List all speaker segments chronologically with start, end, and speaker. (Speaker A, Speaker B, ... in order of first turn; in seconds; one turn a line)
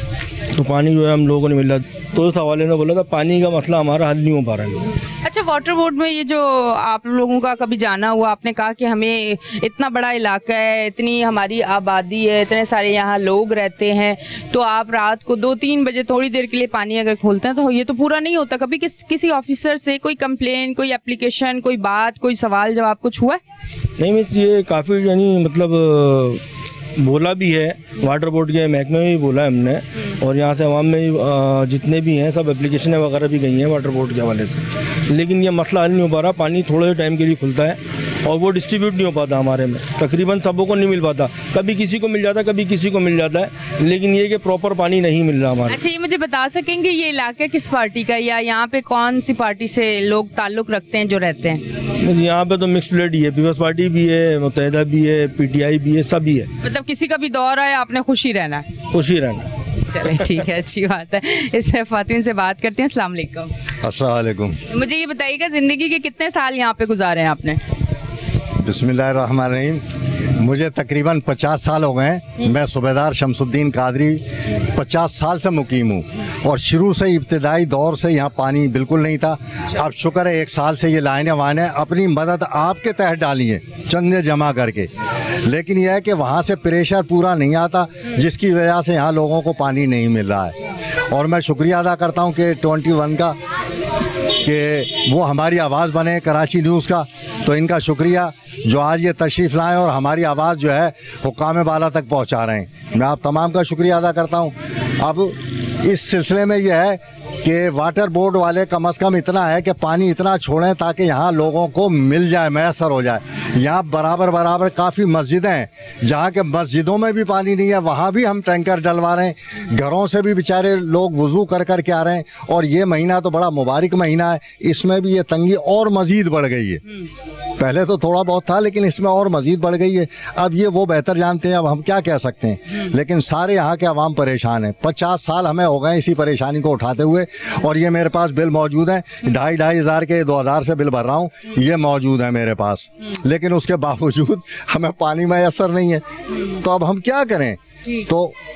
Speaker A: 0.5-4.9
Speaker B: 5.2-23.4
Speaker A: 24.0-26.4
Speaker A: 27.0-45.8
Speaker B: 45.7-51.6
Speaker A: 52.0-56.5
Speaker B: 56.6-58.6
Speaker A: 58.9-59.5
Speaker B: 59.9-63.5
Speaker C: 63.8-64.6
Speaker B: 64.7-67.6
Speaker C: 68.6-69.8
Speaker C: 70.4-84.9
Speaker C: 85.4-90.5
Speaker C: 91.1-93.3
Speaker C: 94.4-126.8
Speaker C: 127.6-148.3